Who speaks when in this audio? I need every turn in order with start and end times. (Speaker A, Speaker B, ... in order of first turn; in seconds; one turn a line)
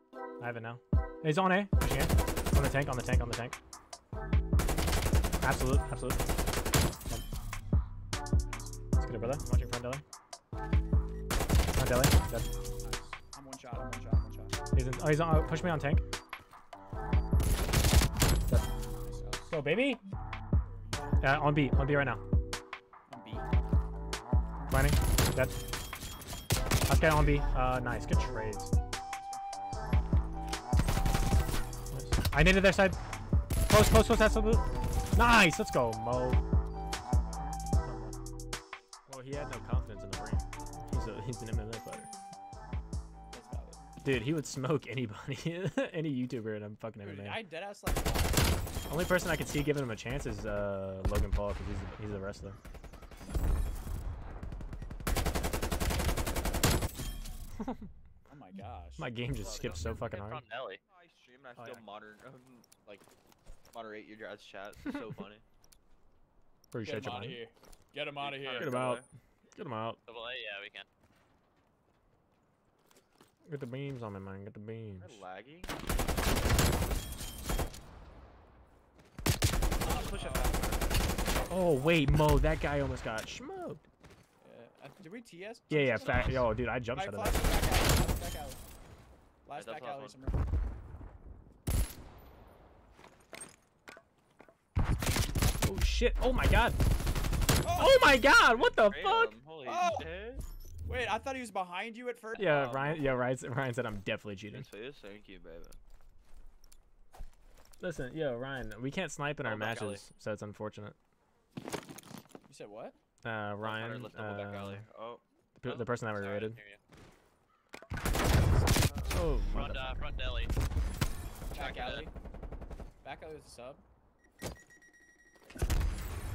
Speaker A: 0.4-3.6
Speaker A: 5.4-6.2
Speaker B: 8.5-8.8
Speaker A: 9.0-10.0
Speaker A: 11.8-12.5
Speaker B: 12.8-14.6
Speaker A: 14.8-16.0
Speaker B: 18.9-19.6
Speaker A: 19.5-20.0
Speaker B: 20.5-21.3
Speaker A: 21.2-22.2
Speaker B: 23.1-23.5
Speaker A: 24.7-25.6
Speaker A: 26.9-28.7
Speaker B: 29.1-29.4
Speaker A: 31.9-33.0
Speaker A: 33.7-36.4
Speaker B: 37.1-37.6
Speaker A: 37.8-38.1
Speaker A: 39.1-42.1
Speaker B: 43.3-43.8
Speaker A: 44.0-47.4
Speaker B: 47.0-48.6
Speaker A: 48.9-52.6
Speaker B: 58.3-59.1
Speaker A: 59.0-60.4
Speaker C: 59.4-60.0
Speaker D: 59.5-60.8
Speaker C: 60.8-63.1
Speaker A: 61.6-61.8
Speaker C: 63.7-65.4
Speaker A: 66.7-67.4
Speaker B: 66.8-68.8
Speaker C: 68.2-69.1
Speaker A: 68.5-70.0
Speaker D: 70.1-70.9
Speaker A: 73.5-75.2
Speaker C: 75.0-75.8
Speaker C: 79.8-81.0
Speaker B: 79.8-80.7
Speaker A: 81.5-83.8
Speaker B: 84.4-88.6
Speaker A: 85.7-87.5
Speaker D: 86.0-86.4
Speaker B: 89.5-90.4
Speaker C: 89.5-90.2
Speaker B: 94.8-95.6
Speaker A: 95.6-96.8
Speaker B: 97.6-98.1
Speaker A: 97.8-99.4
Speaker C: 98.5-100.4
Speaker B: 99.6-100.1
Speaker B: 100.9-102.8
Speaker A: 102.4-104.7
Speaker C: 102.5-103.2
Speaker C: 104.5-105.8
Speaker A: 107.8-111.0
Speaker C: 109.4-110.0
Speaker B: 112.5-113.0
Speaker A: 113.2-114.8
Speaker C: 113.6-115.2
Speaker A: 115.6-116.6
Speaker D: 115.6-116.8
Speaker B: 118.4-118.7
Speaker C: 118.9-119.2
Speaker A: 119.0-120.0
Speaker D: 119.5-120.5
Speaker B: 121.5-122.1
Speaker D: 121.5-122.1
Speaker B: 123.0-123.8